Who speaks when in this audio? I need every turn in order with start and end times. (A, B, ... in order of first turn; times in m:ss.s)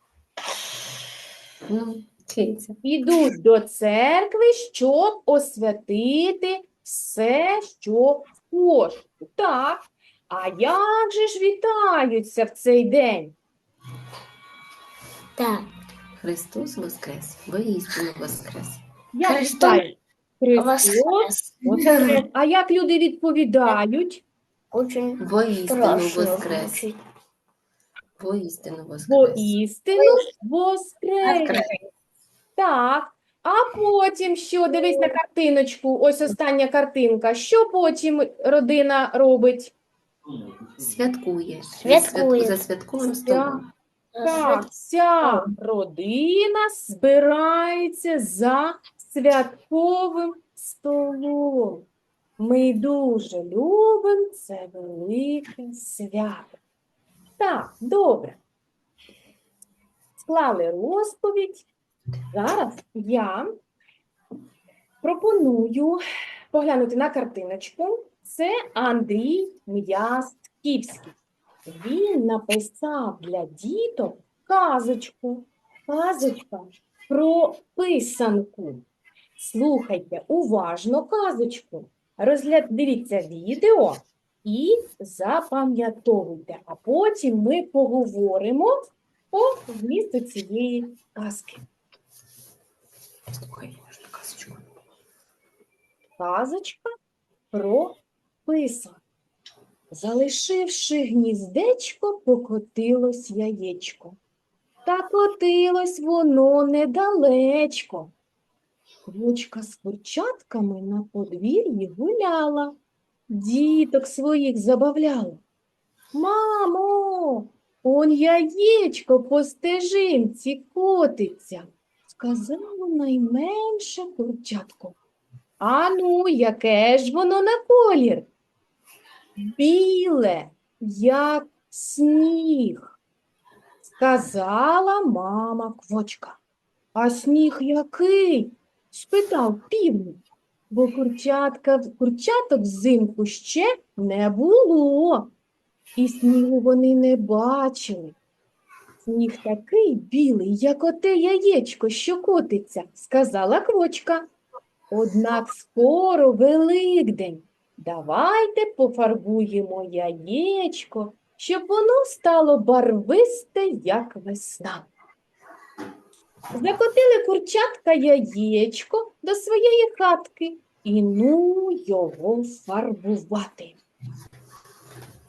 0:01.7-0:02.8 A
0:02.8-0:13.3 B
0:15.4-0:15.7 C
0:16.2-0:18.8 A
0:19.1-0:24.2 B
0:19.2-0:19.8 C
0:20.5-0:22.2 C
0:24.7-0:26.9 C
0:25.2-0:26.8 A
0:28.2-0:29.6 A
0:29.1-0:31.6 B
0:30.0-0:30.2 C
0:31.2-0:31.8 C
0:32.6-0:39.7 B
0:34.7-0:35.1 C
0:40.8-0:43.7 A
0:41.8-0:42.6 C
0:43.0-0:43.6 B
0:44.1-0:44.6 C
0:44.2-0:51.8 B
0:52.4-0:56.6 B
0:57.4-0:58.4 B
1:00.2-1:01.7 B
1:02.3-1:03.5 B
1:05.0-1:06.0 B
1:06.5-1:11.1 B
1:11.6-1:18.8 B
1:19.4-1:28.7 B
1:29.3-1:31.6 B
1:33.3-1:34.7 A
1:36.2-1:36.9 B
1:37.5-1:39.0 B
1:39.9-1:44.2 B
1:44.8-1:48.1 B
1:49.1-1:52.7 B
1:53.3-1:55.4 B
1:56.1-2:05.0 B
2:05.6-2:08.3 B
2:09.4-2:12.9 B
2:13.9-2:16.4 B
2:16.9-2:25.3 B
2:26.0-2:28.2 B
2:29.0-2:34.2 B
2:34.9-2:44.9 B
2:46.5-2:53.8 B